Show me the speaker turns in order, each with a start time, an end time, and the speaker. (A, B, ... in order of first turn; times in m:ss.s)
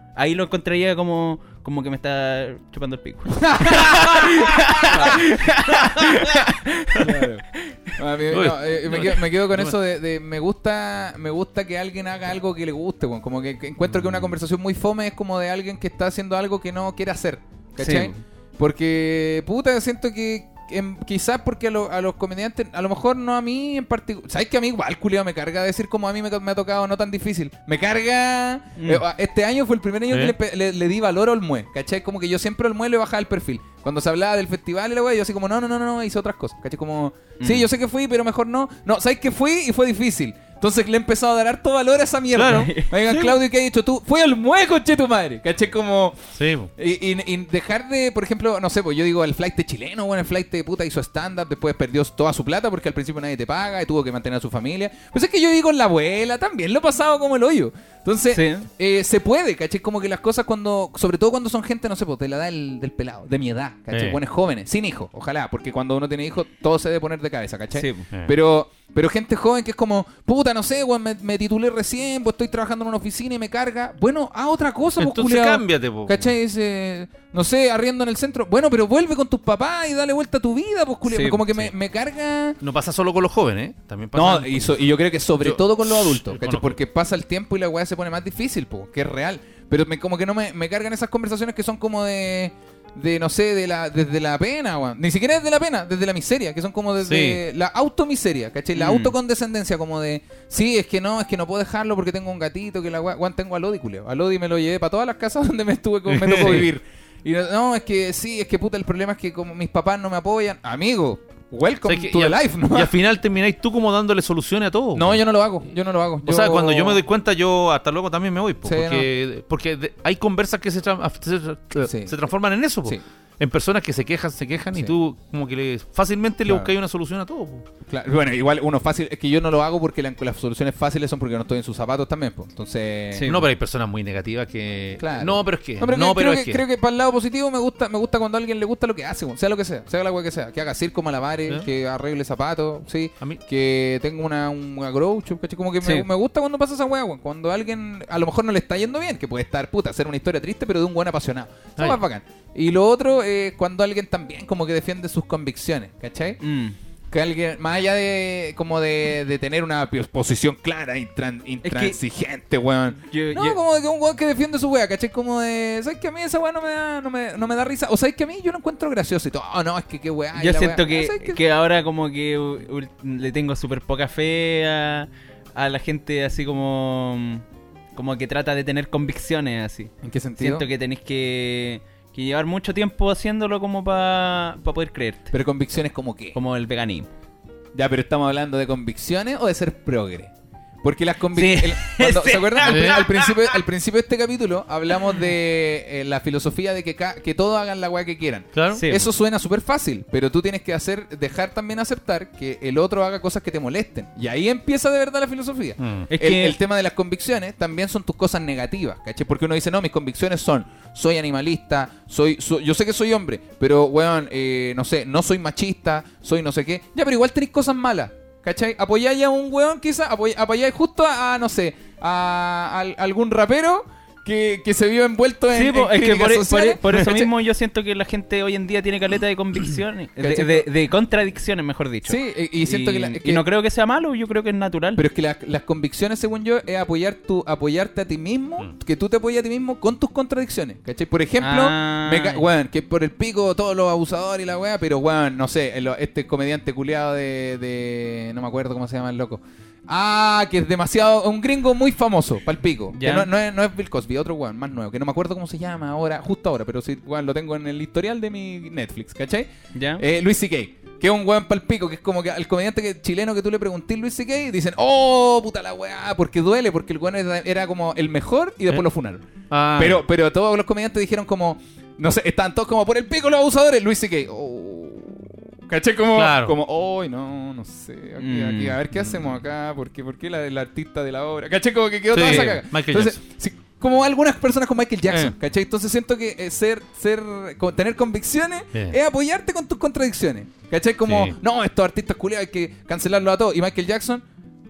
0:00.2-0:07.0 A
0:03.4-0:04.4 B
0:04.9-0:05.2 B
0:07.0-1:22.6 B
0:08.3-0:09.7 C
0:13.9-0:14.3 C
0:17.8-0:18.2 A
0:28.8-0:29.0 A
0:30.1-0:30.3 C
0:37.4-0:37.6 A
0:42.3-0:43.3 C
0:42.5-0:42.9 A
0:46.4-0:46.7 C
0:58.3-0:58.7 A
1:03.9-1:04.2 C
1:07.7-1:08.1 A
1:15.0-1:16.3 C
1:21.0-1:21.4 A
1:22.6-1:24.7 C
1:24.1-1:52.9 B
1:25.4-1:26.8 C
1:37.0-1:37.4 C
1:38.8-1:39.1 A
1:46.1-1:46.7 C
1:51.8-1:55.2 C
1:54.9-1:57.0 B
1:56.2-2:07.6 C
1:58.6-1:59.1 B
2:01.8-2:02.1 B
2:06.4-2:06.7 B
2:07.9-2:13.4 B
2:13.1-2:13.4 A
2:13.3-2:16.6 C
2:15.0-2:36.4 B
2:36.4-2:36.7 A
2:37.1-2:51.4 B
2:41.6-2:42.0 A
2:43.1-2:43.6 A
2:50.4-3:05.3 A
3:00.0-3:00.6 B
3:05.3-3:06.4 B
3:06.3-3:07.1 A
3:07.7-3:10.3 B
3:10.8-3:47.2 B
3:11.3-3:13.5 A
3:12.6-3:13.0 C
3:18.5-3:18.8 C
3:18.7-3:19.1 A
3:25.8-3:26.1 C
3:26.1-3:26.6 A
3:45.5-3:55.0 A
3:50.2-3:50.7 B
3:52.0-3:53.4 B
3:55.0-4:54.2 B
4:01.4-4:02.4 A
4:12.9-4:13.3 A
4:19.7-4:20.0 A
4:29.5-4:30.0 C
4:36.1-4:36.6 C
4:38.2-4:38.7 A
4:42.1-4:43.2 C
4:51.0-4:51.4 C